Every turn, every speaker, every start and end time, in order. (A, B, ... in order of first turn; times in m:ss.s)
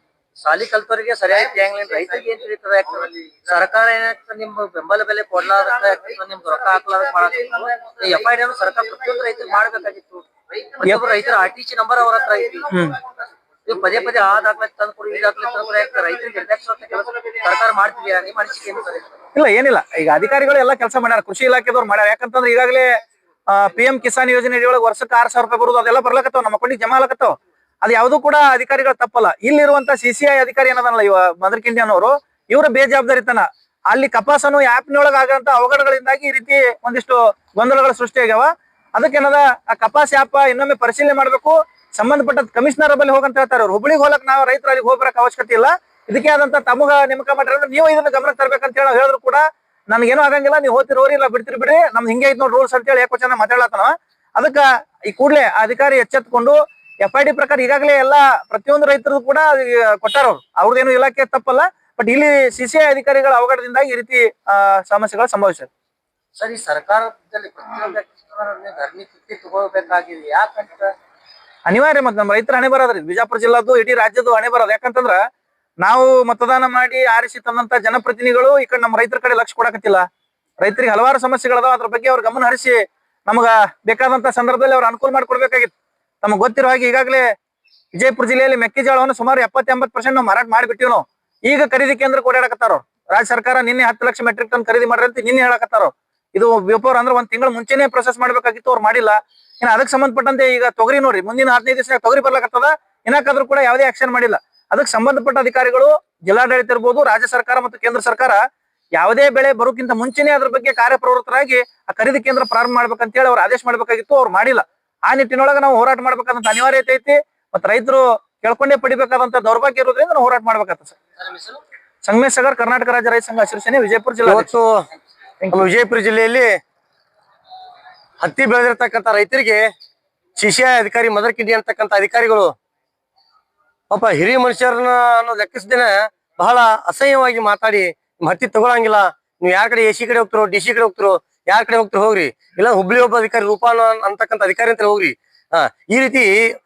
0:00.4-0:12.6 A
0:12.7-0:13.0 B
0:13.6-0:19.2 A
0:19.3-0:22.9 B
0:23.5-1:05.7 B
1:06.4-1:10.9 A
1:11.6-1:15.2 B
1:15.8-1:20.0 B
1:20.6-1:25.7 B
1:26.2-1:27.2 B
1:27.9-1:48.4 B
1:48.9-2:01.0 B
2:01.2-2:01.6 A
2:02.0-2:04.5 B
2:04.3-2:04.8 C
2:05.5-2:06.6 C
2:08.2-2:09.6 C
2:10.4-2:12.5 C
2:13.9-2:26.3 C